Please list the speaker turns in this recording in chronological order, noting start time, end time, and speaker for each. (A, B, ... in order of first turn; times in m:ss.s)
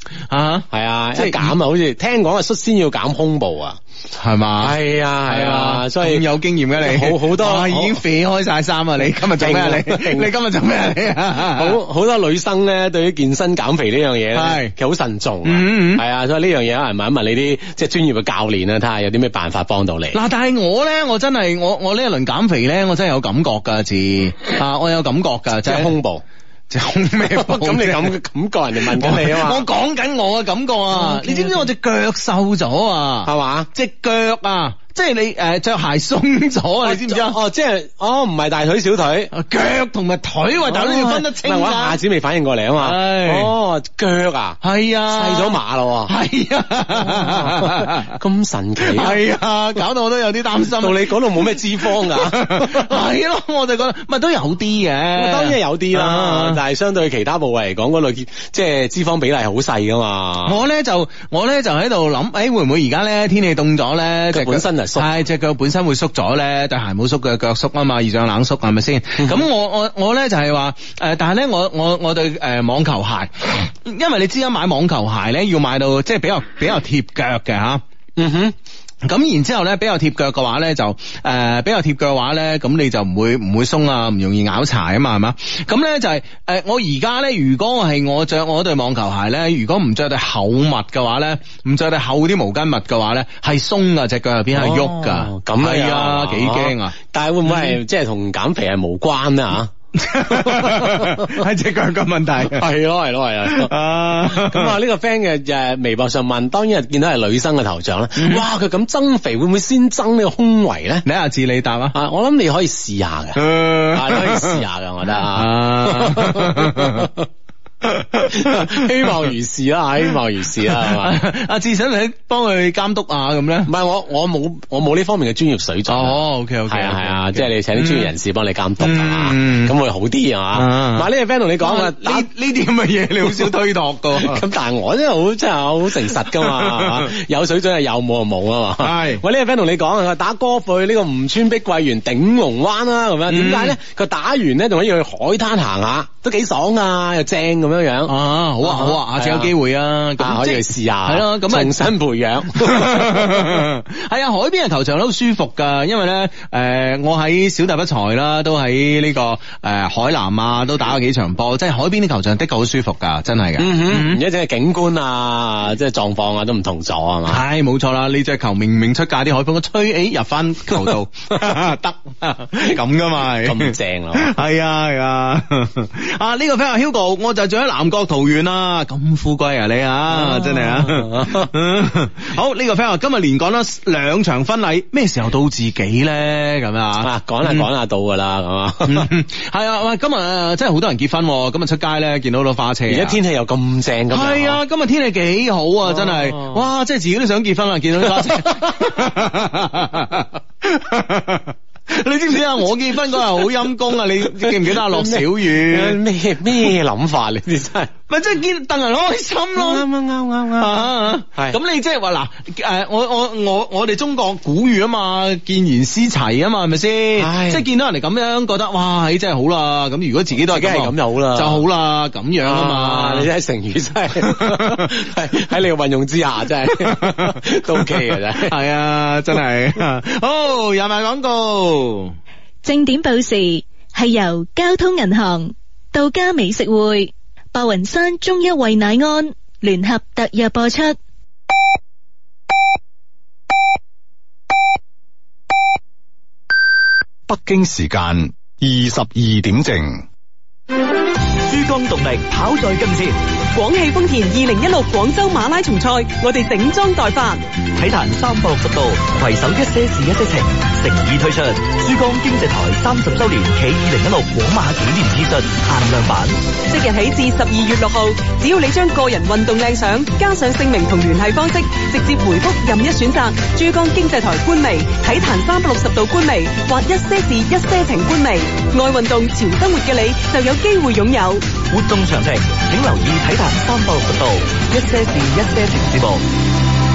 0:00.3-0:01.5 A
0:00.7-0:03.8 B
0:04.2-0:11.8 A
0:04.6-0:06.2 B
0:06.8-0:08.0 B
0:09.2-0:10.3 B
0:11.4-0:20.2 B
0:14.3-0:14.7 A
0:15.4-0:16.0 A
0:20.1-0:25.9 A
0:25.6-0:26.2 B
0:26.7-0:28.2 A
0:27.2-0:29.7 B
0:28.9-0:37.4 A
0:30.9-0:31.7 B
0:33.2-0:33.7 B
0:36.8-0:39.3 B
0:39.3-0:42.0 A
0:40.7-0:46.1 B
0:42.8-0:43.5 A
0:44.6-0:48.2 A
0:46.9-0:49.2 B
0:48.8-0:56.6 A
0:50.8-0:53.0 B
0:55.2-1:00.6 B
1:00.4-1:17.8 A
1:04.3-1:05.1 B
1:09.2-1:09.4 B
1:18.2-1:18.6 B
1:19.0-1:37.8 A
1:34.5-1:39.7 B
1:40.0-1:42.6 A
1:40.2-1:41.4 B
1:42.4-1:51.0 B
1:43.4-1:44.8 A
1:48.2-1:48.4 A
1:51.0-1:52.0 A
1:51.9-1:57.3 B
1:53.4-1:54.6 A
1:55.2-1:57.1 A
1:57.8-1:59.3 A
1:58.3-2:01.2 B
2:00.7-2:03.7 A
2:03.7-2:12.3 B
2:05.9-2:08.1 A
2:08.8-2:09.7 A
2:10.6-2:11.1 A
2:11.6-2:14.4 A
2:14.2-2:29.5 B
2:16.3-2:17.1 A
2:18.8-2:19.2 A
2:23.3-2:23.8 A
2:28.1-2:31.8 A
2:30.2-2:33.6 B
2:32.6-2:44.2 A
2:43.6-2:47.4 B
2:47.3-3:07.7 A
2:53.3-2:54.4 B
3:00.1-3:01.5 B
3:07.0-3:09.1 B
3:08.8-3:13.2 A
3:12.9-3:14.6 B
3:14.1-3:26.0 A
3:15.8-3:16.6 B
3:18.0-3:19.1 B
3:23.1-3:23.5 B
3:24.2-3:27.9 B
3:28.1-3:29.8 A
3:29.6-3:31.6 B
3:30.6-3:43.3 A
3:37.2-3:37.6 B
3:40.4-3:41.6 B
3:42.4-3:48.6 B
3:44.2-3:44.9 A
3:46.9-3:52.2 A
3:52.6-4:01.0 C
4:07.3-4:10.0 D
4:11.4-4:13.2 E
4:13.5-4:17.4 F
4:17.8-4:26.4 E
4:26.7-4:41.5 F
4:41.7-4:46.2 E